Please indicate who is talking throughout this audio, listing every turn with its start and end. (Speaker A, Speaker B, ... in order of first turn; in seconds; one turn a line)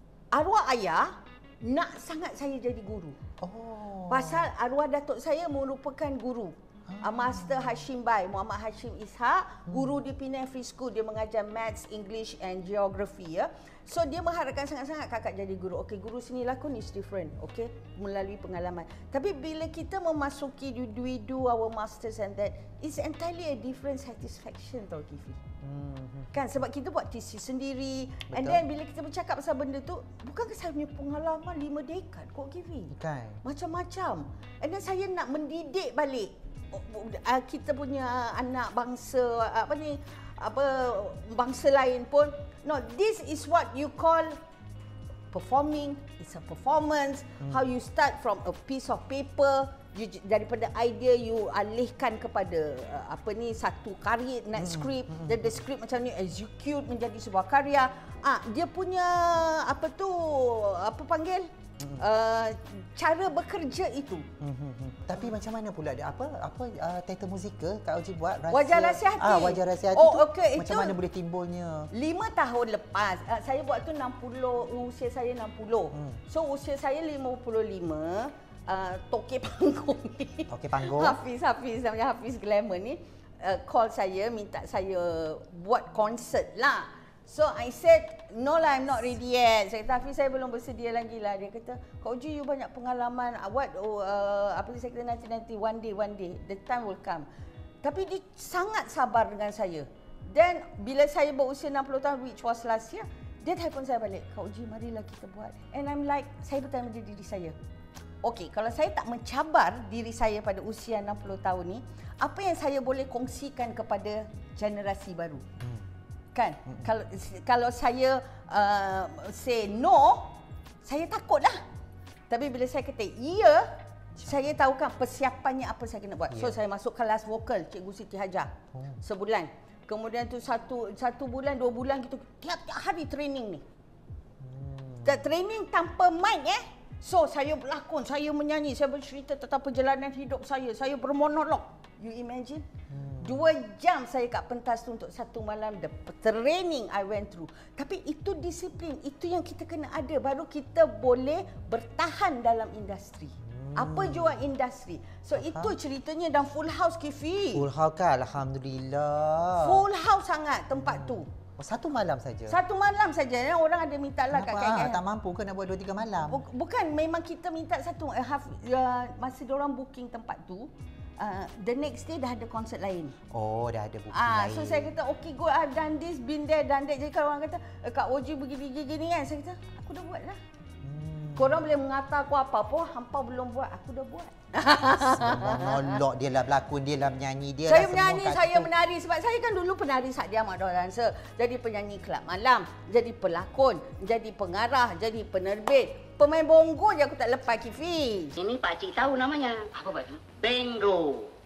Speaker A: 0.3-3.2
Speaker B: 3.4-4.5
Speaker A: 4.1-25.4
Speaker B: 6.9-7.8
Speaker B: 9.7-9.9
Speaker B: 25.6-26.5
Speaker A: 26.3-32.9
Speaker B: 28.3-28.6
Speaker B: 32.9-33.4
Speaker A: 33.4-44.4
Speaker A: 45.3-64.3
Speaker B: 54.6-55.6
Speaker B: 61.8-62.0
Speaker B: 64.4-71.9
Speaker A: 68.5-71.0
Speaker A: 71.9-97.3
Speaker B: 75.9-76.2
Speaker B: 80.5-81.2
Speaker A: 97.8-107.5
Speaker A: 108.2-115.4
Speaker B: 115.6-115.9
Speaker A: 116.3-121.6
Speaker A: 122.3-133.6
Speaker B: 124.2-124.5
Speaker B: 126.3-126.6
Speaker B: 128.7-129.0
Speaker B: 134.4-135.2
Speaker A: 135.0-142.6
Speaker B: 142.9-143.4
Speaker A: 143.2-157.6
Speaker B: 153.4-154.5
Speaker B: 155.4-155.8
Speaker B: 157.5-159.8
Speaker A: 159.6-161.3
Speaker B: 160.7-162.6
Speaker A: 162.5-165.0
Speaker B: 164.3-166.4
Speaker A: 166.2-173.1
Speaker B: 173.3-174.9
Speaker A: 174.1-180.4
Speaker B: 180.8-181.7
Speaker A: 181.3-186.0
Speaker B: 184.7-188.7
Speaker A: 187.7-198.4
Speaker C: 198.4-201.3